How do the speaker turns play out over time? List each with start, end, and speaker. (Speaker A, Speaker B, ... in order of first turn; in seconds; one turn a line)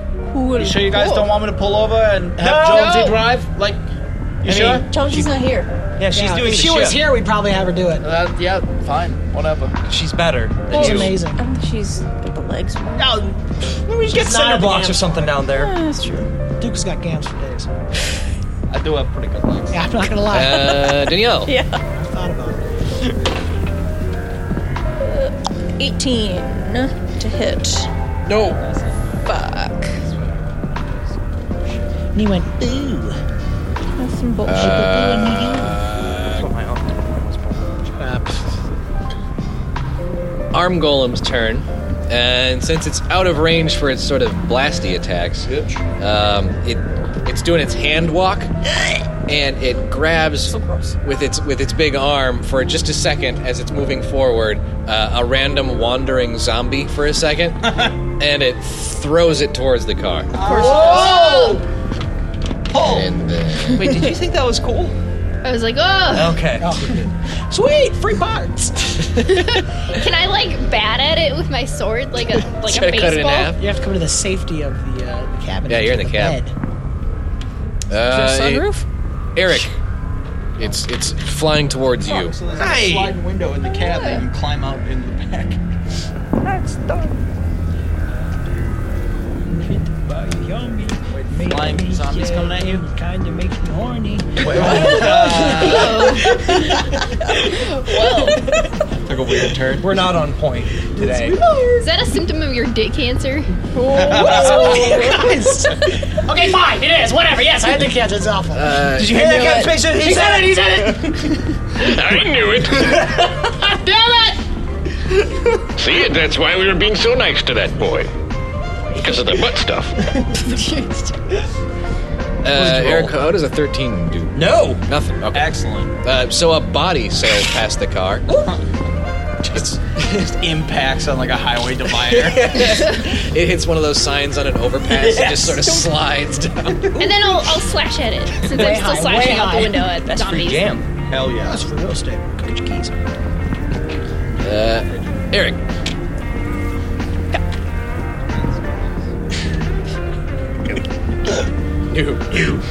Speaker A: 0.3-1.3
Speaker B: 0.6-3.8
Speaker C: 2.4-3.0
Speaker D: 2.7-3.2
Speaker B: 4.4-4.9
Speaker E: 4.5-5.2
Speaker C: 4.5-4.8
Speaker A: 4.9-5.7
Speaker E: 6.0-7.0
Speaker C: 6.1-8.1
Speaker B: 8.0-9.8
Speaker E: 9.9-11.2
Speaker C: 10.7-11.4
Speaker A: 11.3-13.2
Speaker C: 13.0-13.4
Speaker E: 13.9-15.8
Speaker C: 14.1-15.4
Speaker A: 15.5-16.3
Speaker C: 16.6-17.9
Speaker B: 18.7-19.8
Speaker C: 19.7-20.9
Speaker F: 20.3-21.6
Speaker A: 20.6-21.8
Speaker C: 21.9-22.7
Speaker A: 25.0-27.9
Speaker F: 28.2-28.6
Speaker B: 28.6-29.3
Speaker A: 29.3-30.0
Speaker B: 30.0-31.1
Speaker C: 32.1-33.2
Speaker A: 34.0-35.3
Speaker F: 34.5-36.5
Speaker E: 34.5-37.8
Speaker C: 37.9-38.4
Speaker F: 40.5-48.5
Speaker B: 45.5-45.8
Speaker F: 49.3-60.3
Speaker A: 50.5-50.9
Speaker B: 57.6-58.0
Speaker B: 60.4-61.6
Speaker D: 60.4-61.6
Speaker C: 60.5-61.1
Speaker B: 62.7-63.1
Speaker F: 62.8-64.1
Speaker E: 63.7-65.0
Speaker D: 65.4-66.5
Speaker E: 66.1-67.0
Speaker C: 66.6-69.1
Speaker D: 69.2-73.6
Speaker F: 72.6-73.6
Speaker C: 73.6-76.5
Speaker F: 75.7-76.4
Speaker F: 77.9-78.7
Speaker A: 78.0-78.8
Speaker F: 79.3-79.7
Speaker F: 80.6-82.3
Speaker B: 82.0-85.6
Speaker E: 82.6-83.2
Speaker A: 83.8-84.2
Speaker E: 86.4-87.2
Speaker C: 89.3-95.3
Speaker B: 91.1-92.9
Speaker B: 94.4-96.2
Speaker E: 94.5-95.8
Speaker D: 95.4-96.8
Speaker D: 97.5-98.5
Speaker B: 98.9-100.0
Speaker E: 99.8-101.4
Speaker D: 101.8-103.6
Speaker A: 103.8-105.4
Speaker B: 103.9-104.8
Speaker C: 103.9-108.9
Speaker E: 104.2-104.5
Speaker F: 108.5-109.3
Speaker E: 108.9-111.3
Speaker A: 109.1-109.7
Speaker C: 109.5-111.9
Speaker G: 111.8-113.1
Speaker C: 112.9-114.4
Speaker G: 115.8-118.1
Speaker G: 119.0-120.0
Speaker D: 120.4-121.1
Speaker F: 122.4-125.5
Speaker E: 122.5-123.2
Speaker E: 124.3-124.8
Speaker B: 125.3-125.9
Speaker F: 126.0-128.3
Speaker E: 128.3-128.6
Speaker F: 129.5-130.1
Speaker B: 130.1-132.6
Speaker F: 132.0-136.9
Speaker D: 132.7-133.1
Speaker E: 136.9-137.4
Speaker D: 137.0-140.8
Speaker C: 138.5-139.9
Speaker E: 140.0-140.8
Speaker B: 141.1-141.7
Speaker C: 141.4-142.9
Speaker F: 144.4-145.6
Speaker B: 148.3-148.9
Speaker F: 151.9-152.5